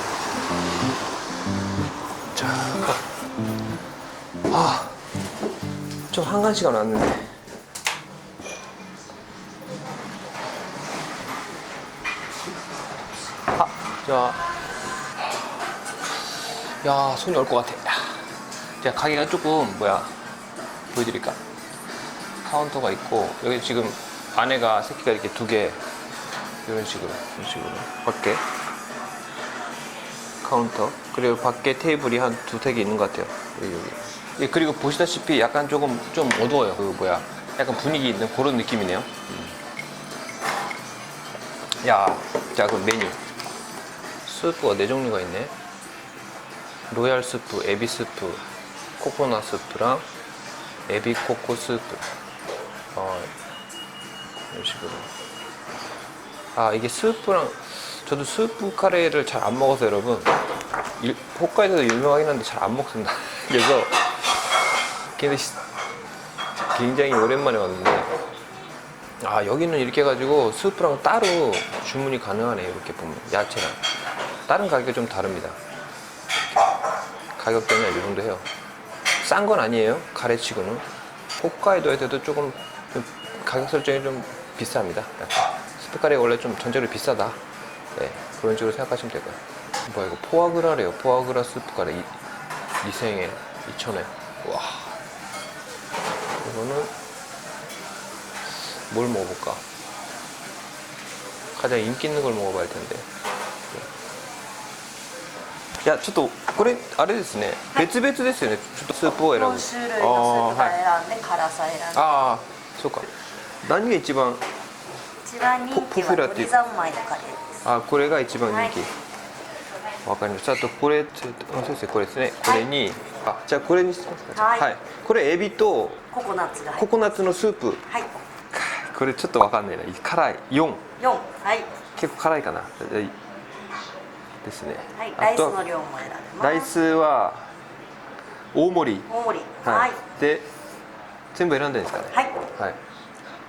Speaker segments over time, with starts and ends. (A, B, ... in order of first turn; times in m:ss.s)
0:02.3-0:03.0 A
0:04.5-0:05.0 A
0:06.1-0:07.2 A
0:13.5-0:14.4 A
0:16.8-0:18.2 A
0:18.8-0:20.1 A
0:20.9-0:21.4 A
0:22.4-0:25.8 A
0:26.6-0:28.4 A
0:30.4-0:39.6 A
0:41.8-0:43.2 A
0:44.2-0:45.5 A
0:46.9-0:48.4 A
0:49.0-0:50.1 A
0:50.9-0:52.0 A
0:52.9-0:53.3 A
0:54.5-0:55.1 A
0:56.5-1:00.3 A
1:01.0-1:04.3 A
1:05.2-1:05.6 A
1:06.7-1:08.1 A
1:09.2-1:13.8 A
1:14.5-1:15.6 A
1:17.4-1:18.5 A
1:19.2-1:20.9 A
1:21.4-1:27.4 A
1:27.9-1:32.1 A
1:32.8-1:35.0 A
1:36.4-1:36.9 A
1:38.9-1:39.6 A
1:41.5-1:43.1 A
1:45.8-1:50.8 A
1:49.2-1:52.1 B
1:51.9-1:53.1 A
1:53.6-1:54.4 A
1:55.2-1:57.5 B
1:55.7-1:56.6 A
1:57.6-1:58.9 A
1:58.5-1:58.7 B
2:00.0-2:06.0 A
2:04.4-2:04.7 B
2:06.1-2:06.9 B
2:06.7-2:07.9 A
2:07.9-2:08.2 B
2:08.5-2:10.9 A
2:11.0-2:11.7 B
2:11.9-2:13.1 A
2:14.4-2:15.6 A
2:15.0-2:16.7 B
2:16.4-2:17.5 A
2:18.5-2:20.5 A
2:19.1-2:20.0 B
2:21.3-2:22.8 A
2:22.1-2:22.4 B